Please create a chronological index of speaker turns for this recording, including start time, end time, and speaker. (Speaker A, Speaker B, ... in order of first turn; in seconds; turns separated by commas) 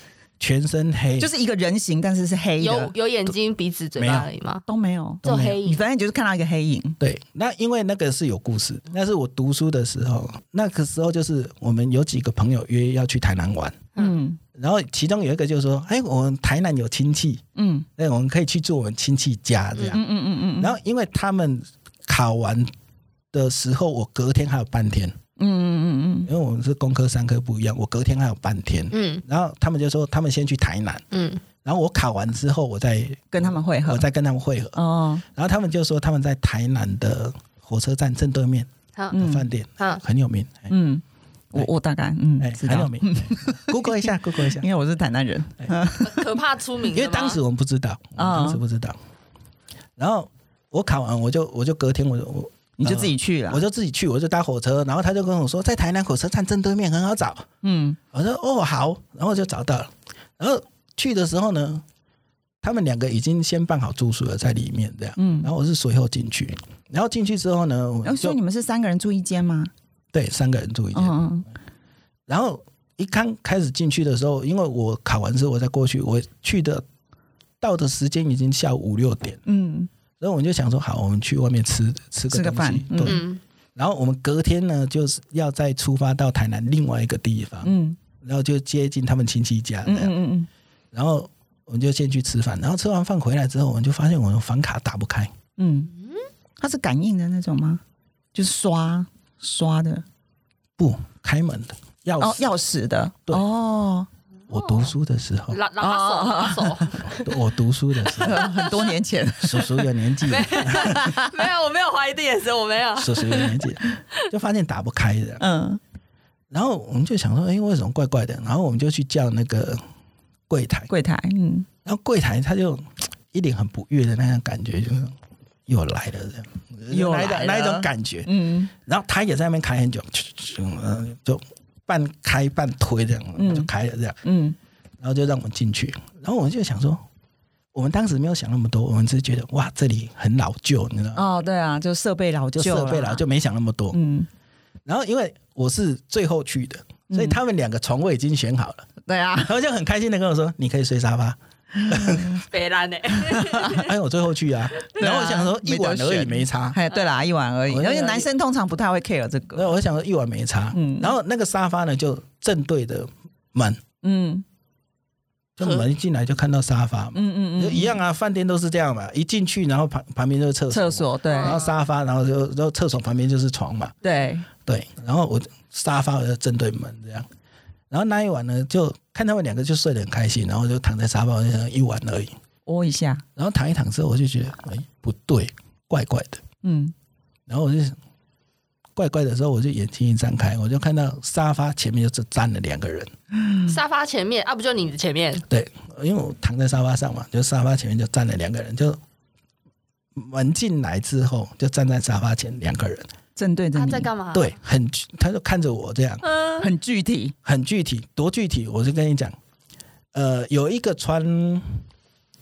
Speaker A: 0.4-1.3, Speaker B: 1.2-2.9, Speaker C: 2.6-4.6, Speaker A: 4.0-4.3, Speaker B: 4.7-7.0, Speaker A: 5.2-5.6, Speaker C: 5.2-5.8, Speaker A: 7.0-13.9, Speaker B: 14.0-14.4, Speaker A: 14.6-17.4, Speaker B: 17.6-17.9, Speaker A: 18.0-20.0, Speaker B: 19.9-20.8, Speaker A: 20.6-22.7, Speaker A: 23.3-25.2, Speaker B: 25.4-26.3, Speaker A: 26.3-31.1, Speaker C: 28.9-29.2, Speaker C: 31.1-31.4, Speaker A: 31.6-40.7, Speaker B: 33.3-34.0, Speaker B: 34.8-35.2, Speaker B: 39.1-39.5, Speaker B: 40.7-46.3, Speaker A: 42.4-44.7, Speaker C: 46.0-47.4, Speaker A: 46.9-49.0, Speaker B: 48.2-48.6, Speaker A: 50.0-57.5, Speaker B: 52.8-53.6, Speaker B: 57.6-58.0, Speaker A: 58.1-61.8, Speaker A: 62.6-68.4, Speaker B: 65.2-65.5, Speaker B: 68.0-69.7, Speaker A: 70.1-71.2, Speaker B: 70.9-71.5, Speaker A: 72.3-76.8, Speaker A: 77.6-79.4, Speaker B: 79.5-79.9, Speaker A: 80.2-83.2, Speaker B: 82.3-83.2, Speaker C: 83.0-83.4, Speaker A: 83.8-90.1, Speaker B: 87.6-88.0, Speaker B: 89.8-90.5, Speaker A: 90.9-95.3, Speaker B: 95.6-95.9, Speaker C: 96.0-96.2, Speaker B: 96.6-97.8, Speaker B: 98.3-100.0, Speaker A: 100.8-102.5, Speaker B: 102.2-104.1, Speaker C: 104.5-104.9, Speaker A: 104.5-105.6, Speaker C: 105.5-107.3, Speaker B: 105.8-107.0, Speaker A: 107.2-108.6, Speaker B: 108.2-109.9, Speaker C: 108.4-108.9, Speaker A: 109.4-111.1, Speaker C: 110.3-113.6, Speaker B: 110.6-111.3, Speaker A: 113.0-115.4, Speaker B: 115.4-115.8, Speaker A: 116.5-119.8, Speaker A: 120.5-120.9, Speaker B: 120.9-121.7, Speaker A: 121.8-125.2, Speaker A: 125.7-134.2, Speaker B: 126.9-128.7, Speaker B: 133.4-133.7, Speaker B: 134.2-134.6, Speaker A: 135.0-137.0, Speaker A: 137.7-141.2, Speaker B: 141.1-143.2, Speaker A: 142.6-144.0, Speaker B: 143.9-144.3, Speaker A: 144.9-148.9, Speaker B: 147.1-147.4, Speaker B: 149.1-149.5, Speaker A: 149.4-152.4, Speaker B: 151.9-152.3, Speaker C: 152.5-153.9, Speaker B: 153.3-153.8, Speaker A: 153.6-156.8, Speaker B: 154.8-159.7, Speaker A: 157.7-158.3, Speaker A: 159.5-163.8, Speaker B: 160.7-161.1, Speaker B: 164.0-164.4, Speaker A: 165.6-174.0, Speaker C: 165.6-165.9, Speaker B: 167.1-168.0, Speaker B: 170.7-171.6, Speaker C: 171.3-171.7, Speaker B: 174.0-174.5, Speaker A: 174.7-177.3, Speaker A: 177.9-182.4, Speaker B: 182.7-183.2, Speaker A: 183.4-186.4, Speaker B: 186.6-186.9, Speaker A: 187.5-188.0, Speaker A: 189.0-193.1, Speaker B: 193.4-193.7, Speaker C: 193.7-195.4, Speaker A: 195.5-199.0, Speaker A: 200.2-203.1, Speaker B: 203.4-204.1, Speaker C: 203.8-204.5, Speaker A: 204.3-206.2, Speaker C: 206.2-206.7, Speaker B: 206.6-207.3, Speaker A: 207.4-209.4, Speaker A: 210.1-211.8